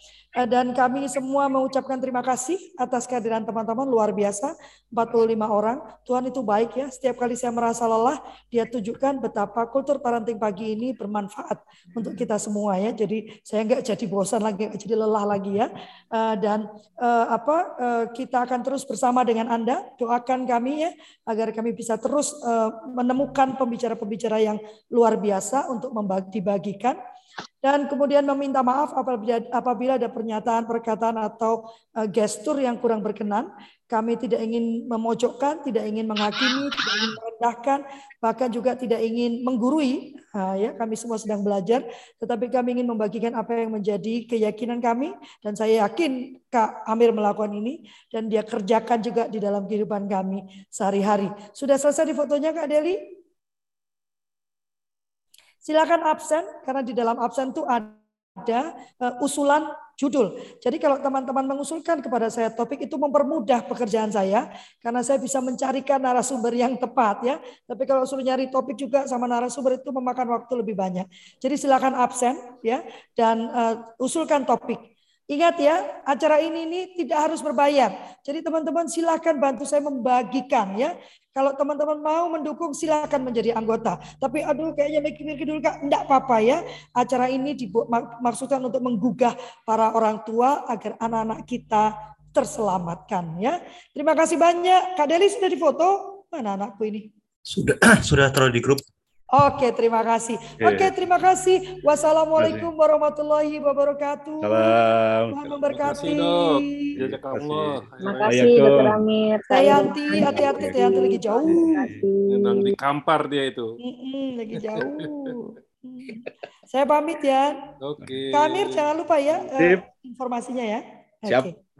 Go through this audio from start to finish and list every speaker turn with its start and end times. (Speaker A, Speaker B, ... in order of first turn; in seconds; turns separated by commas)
Speaker A: 0.4-27.0, Speaker A: 27.6-53.0, Speaker A: 55.7-97.1, Speaker B: 97.5-98.8, Speaker A: 99.3-104.8, Speaker B: 100.6-100.9, Speaker B: 102.4-102.7, Speaker B: 104.4-105.5, Speaker A: 105.3-107.0, Speaker C: 105.7-108.7, Speaker B: 106.9-109.0, Speaker D: 108.0-112.8, Speaker A: 109.5-111.8, Speaker B: 110.1-110.8, Speaker B: 111.5-112.0, Speaker C: 112.3-113.8, Speaker A: 113.8-117.7, Speaker C: 114.7-115.3, Speaker C: 117.8-119.0, Speaker A: 118.3-121.5, Speaker B: 119.6-119.8